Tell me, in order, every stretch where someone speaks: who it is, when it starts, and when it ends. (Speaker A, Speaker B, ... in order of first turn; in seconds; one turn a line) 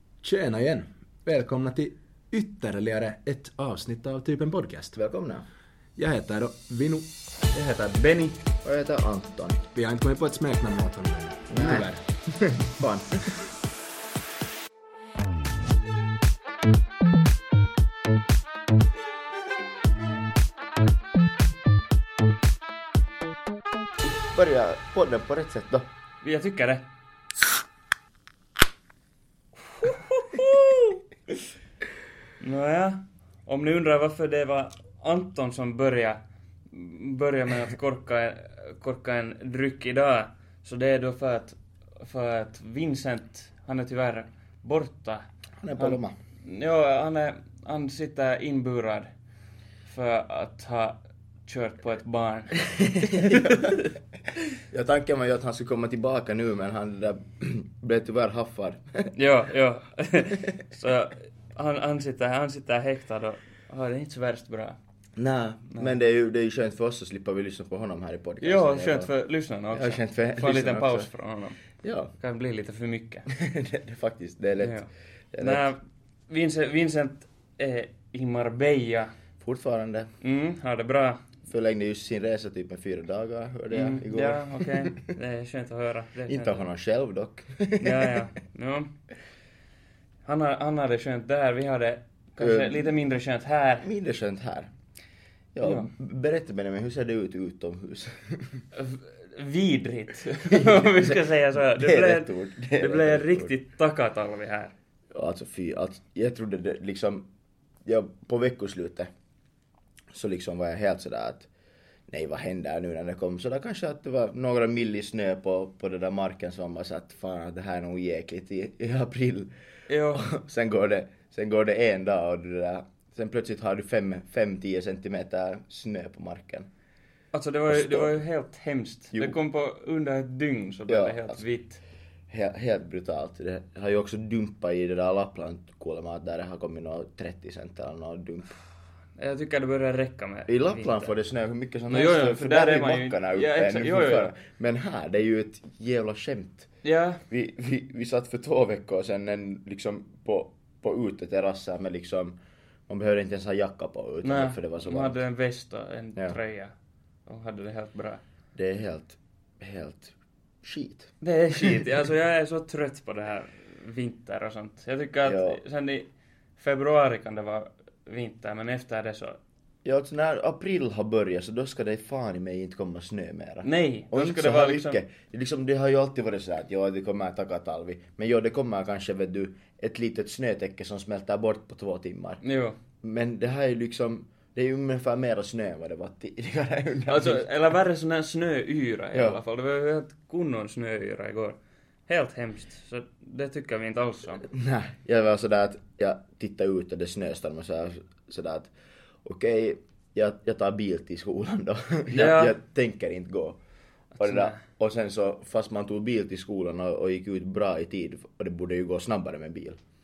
Speaker A: 0.2-4.9
Speaker B: 4.9-5.5
Speaker A: 6.0-7.1
Speaker C: 7.5-8.4
Speaker B: 8.6-9.6
Speaker A: 9.7-12.0
Speaker B: 11.5-13.4
Speaker B: 24.3-25.9
Speaker C: 26.2-26.9
Speaker C: 29.6-31.0
Speaker C: 32.4-36.2
Speaker C: 36.7-45.2
Speaker B: 45.6-46.1
Speaker C: 45.8-49.1
Speaker C: 49.9-53.9
Speaker B: 52.7-53.8
Speaker B: 54.7-59.1
Speaker C: 59.1-64.8
Speaker B: 65.2-69.1
Speaker C: 68.4-71.6
Speaker B: 69.7-71.1
Speaker B: 71.8-72.1
Speaker C: 72.2-73.3
Speaker B: 73.3-74.8
Speaker C: 74.6-79.1
Speaker B: 75.3-75.7
Speaker B: 79.4-80.1
Speaker C: 80.2-81.2
Speaker B: 81.5-85.1
Speaker C: 83.7-86.7
Speaker B: 86.2-88.2
Speaker C: 87.8-88.9
Speaker C: 90.2-93.9
Speaker B: 92.4-92.9
Speaker B: 93.8-94.7
Speaker B: 95.5-98.6
Speaker C: 95.6-95.9
Speaker C: 98.7-104.7
Speaker B: 100.5-103.5
Speaker B: 105.1-107.3
Speaker B: 107.8-109.1
Speaker B: 110.1-111.5
Speaker B: 112.1-119.5
Speaker C: 119.9-120.3
Speaker B: 120.1-126.7
Speaker C: 127.3-131.8
Speaker B: 127.7-128.1
Speaker B: 130.9-131.4
Speaker B: 132.3-138.6
Speaker C: 139.2-141.1
Speaker B: 140.5-146.7
Speaker C: 141.9-144.3
Speaker C: 146.8-147.2
Speaker B: 147.3-152.3
Speaker B: 152.9-155.2
Speaker C: 154.2-156.7
Speaker C: 157.2-158.2
Speaker B: 158.5-161.8
Speaker C: 161.2-169.4
Speaker B: 165.2-165.6
Speaker B: 169.8-182.4
Speaker C: 173.6-175.0
Speaker C: 182.4-182.8
Speaker B: 183.0-187.5
Speaker C: 187.1-191.6
Speaker B: 189.1-189.4
Speaker C: 192.1-194.5
Speaker B: 194.5-198.7
Speaker B: 199.2-203.6
Speaker C: 202.1-202.6
Speaker C: 204.1-204.6
Speaker B: 204.2-209.8